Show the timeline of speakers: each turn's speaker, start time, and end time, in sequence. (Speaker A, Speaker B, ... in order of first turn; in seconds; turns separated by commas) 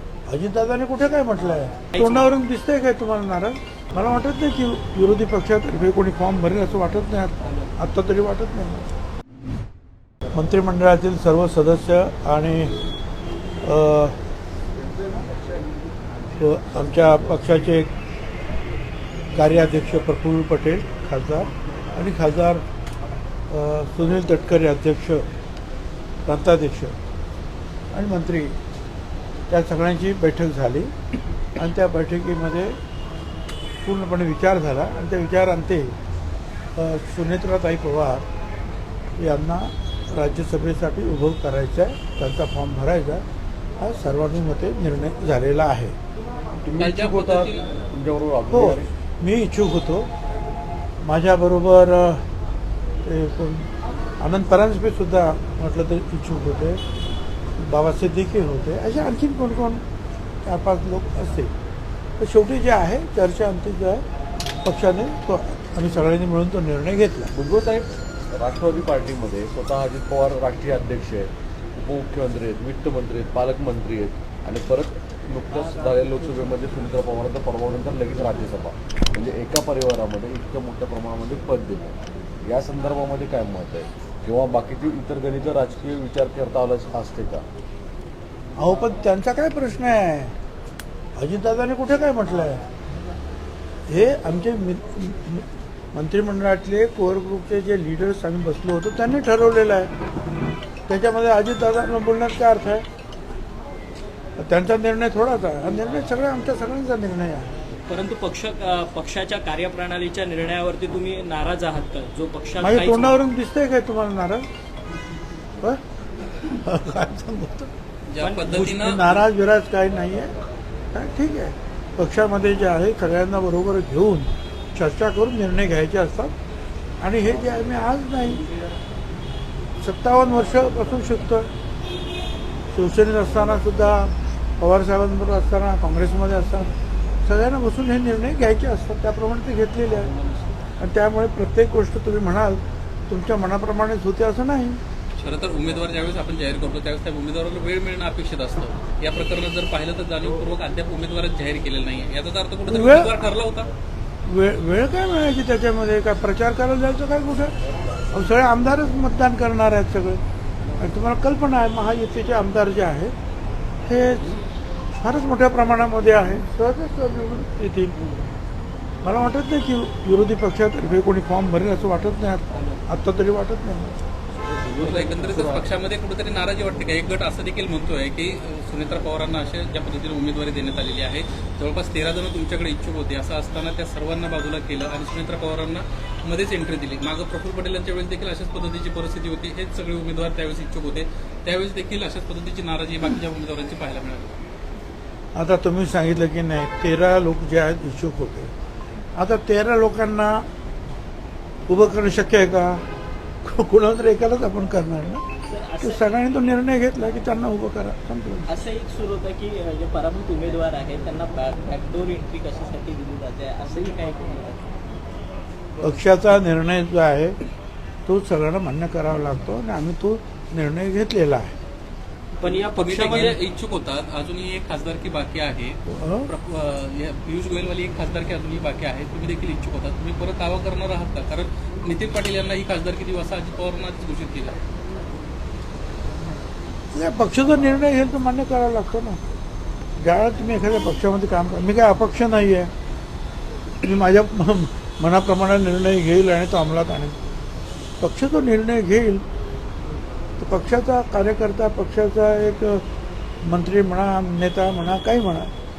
Speaker A: 0.3-8.9, Speaker B: 1.9-2.3, Speaker A: 10.3-12.7, Speaker A: 13.6-14.2, Speaker A: 16.4-17.9, Speaker A: 19.3-22.6, Speaker A: 23.5-25.3, Speaker A: 26.3-27.0, Speaker A: 27.9-28.6, Speaker A: 29.5-30.9, Speaker A: 31.6-32.8, Speaker A: 33.8-36.0, Speaker A: 36.8-38.3, Speaker A: 39.2-43.2, Speaker A: 43.8-46.0, Speaker C: 46.6-48.9, Speaker D: 46.8-47.6, Speaker A: 48.5-50.1, Speaker A: 51.0-52.3, Speaker A: 53.0-56.8, Speaker A: 57.6-59.8, Speaker A: 60.5-61.5, Speaker A: 62.2-64.0, Speaker A: 64.6-67.3, Speaker C: 67.3-87.5, Speaker A: 88.6-90.4, Speaker A: 91.2-92.6, Speaker A: 93.9-99.9, Speaker A: 100.9-102.9, Speaker A: 104.4-107.6, Speaker B: 107.9-113.2, Speaker A: 112.6-114.5, Speaker A: 116.4-117.7, Speaker D: 118.1-119.2, Speaker B: 118.2-118.7, Speaker A: 118.5-120.3, Speaker A: 120.9-126.4, Speaker A: 127.0-128.4, Speaker A: 129.8-131.5, Speaker A: 132.7-136.7, Speaker A: 137.2-140.1, Speaker A: 140.8-144.8, Speaker D: 145.2-153.7, Speaker A: 152.7-153.1, Speaker A: 154.2-157.5, Speaker A: 158.1-160.2, Speaker A: 160.8-163.2, Speaker A: 163.9-164.4, Speaker A: 165.0-167.9, Speaker A: 169.0-174.0, Speaker C: 174.3-175.7, Speaker D: 174.8-194.4, Speaker A: 195.3-198.5, Speaker A: 199.2-200.5, Speaker A: 201.7-202.8, Speaker A: 203.4-205.3, Speaker B: 205.5-206.1, Speaker A: 205.8-208.5, Speaker B: 208.5-214.8, Speaker A: 215.8-217.4, Speaker A: 218.1-221.6, Speaker B: 222.4-223.4, Speaker D: 222.7-234.6, Speaker A: 225.9-226.3, Speaker A: 236.9-239.2, Speaker A: 240.0-242.7, Speaker A: 243.8-247.2, Speaker A: 248.0-249.2, Speaker A: 250.4-252.8, Speaker A: 253.4-255.5